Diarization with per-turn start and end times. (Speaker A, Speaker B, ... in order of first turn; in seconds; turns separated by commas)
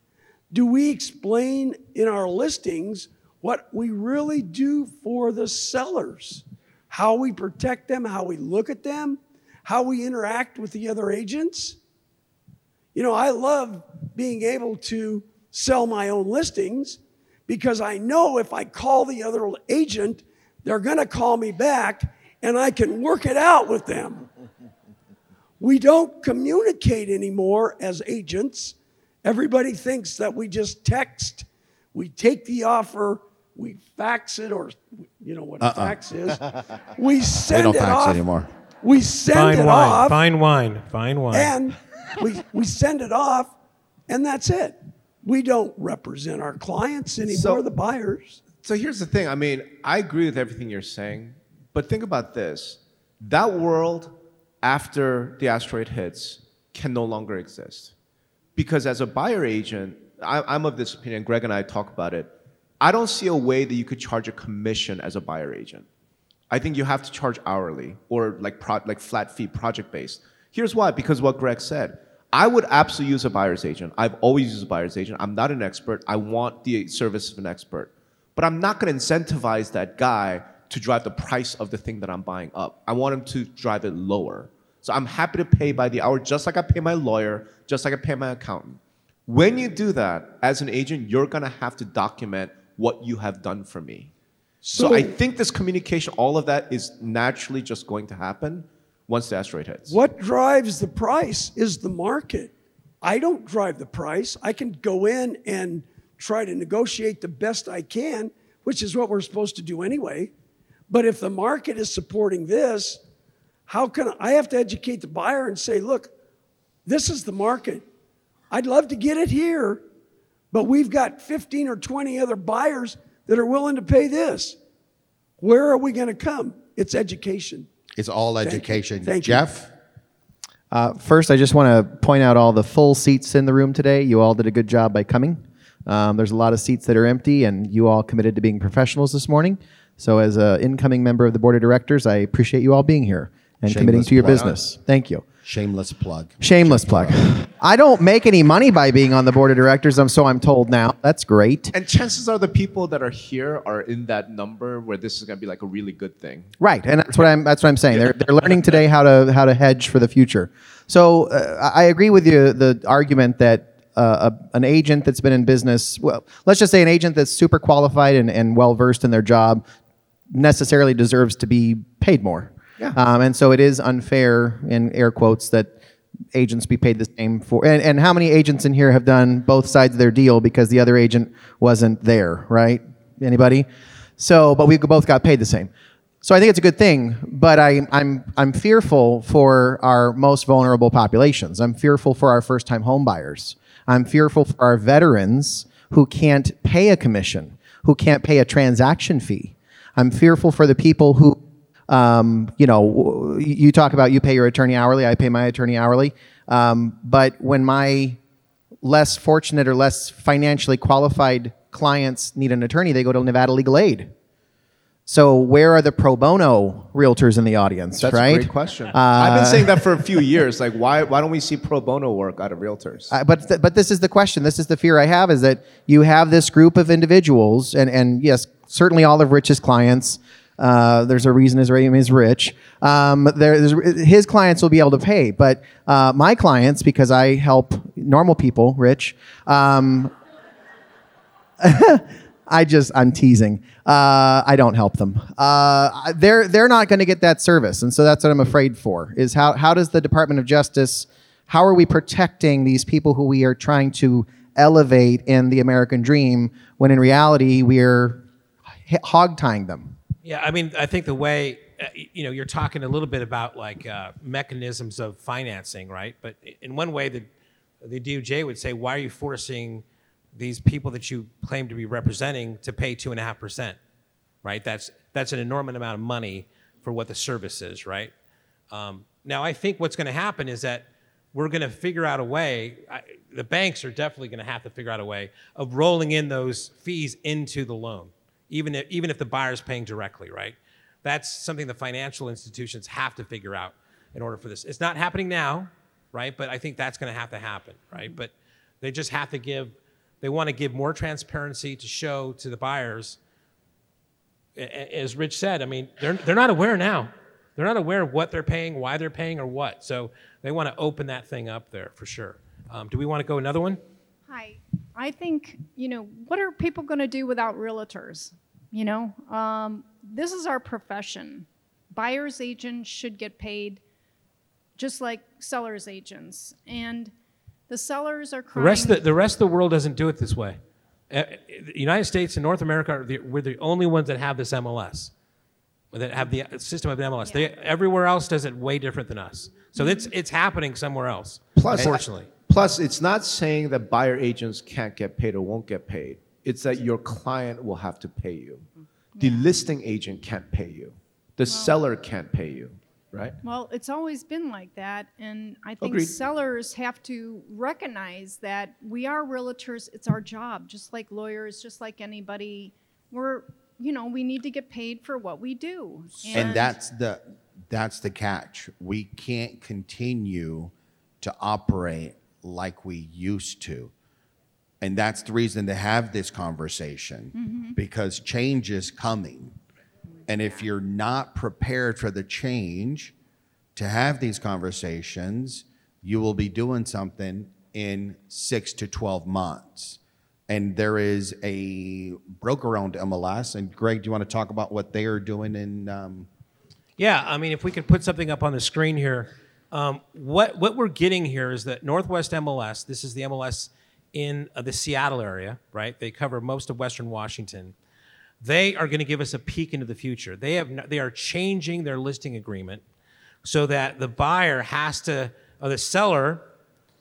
Speaker A: 0.5-11.8, Speaker A: 12.9-24.3, Speaker A: 25.6-38.2, Speaker B: 35.6-36.0, Speaker B: 37.5-38.5, Speaker A: 38.8-40.2, Speaker C: 39.3-41.6, Speaker A: 41.3-43.5, Speaker A: 44.1-48.4, Speaker D: 47.3-47.6, Speaker D: 48.6-57.9, Speaker D: 58.6-65.9, Speaker D: 66.5-94.1, Speaker A: 94.6-95.2, Speaker D: 94.8-100.0, Speaker A: 99.9-110.3, Speaker A: 110.9-113.0, Speaker A: 113.7-116.1, Speaker A: 116.9-117.8, Speaker A: 118.5-119.8, Speaker A: 120.5-124.6, Speaker A: 125.4-127.7, Speaker B: 128.0-129.7, Speaker A: 128.4-129.4, Speaker E: 130.7-145.3, Speaker B: 143.7-144.6, Speaker B: 145.4-147.3, Speaker E: 146.4-151.7, Speaker D: 151.7-156.5, Speaker E: 156.6-169.7, Speaker D: 157.9-158.8, Speaker E: 170.3-175.8, Speaker E: 176.3-185.7, Speaker E: 186.2-208.2, Speaker E: 208.8-214.1, Speaker E: 215.1-219.8, Speaker D: 218.0-223.1, Speaker E: 223.1-240.1, Speaker E: 241.6-258.3, Speaker E: 258.9-259.9, Speaker C: 260.2-267.3, Speaker C: 267.8-269.8, Speaker C: 270.4-273.8, Speaker C: 274.4-278.1, Speaker C: 278.7-303.2, Speaker C: 304.6-313.8, Speaker F: 314.3-323.8, Speaker F: 324.8-327.1, Speaker F: 327.7-329.0, Speaker C: 328.6-330.6, Speaker C: 331.1-335.1, Speaker C: 335.9-342.3, Speaker D: 341.6-348.7, Speaker F: 349.2-349.5, Speaker D: 349.2-353.4, Speaker F: 351.5-351.8, Speaker F: 353.4-366.8, Speaker D: 355.8-356.2, Speaker B: 366.3-373.9, Speaker B: 374.8-379.6, Speaker F: 377.3-377.8, Speaker B: 380.3-383.1, Speaker B: 383.8-396.3, Speaker C: 397.0-407.8, Speaker C: 408.4-412.8, Speaker C: 413.4-416.4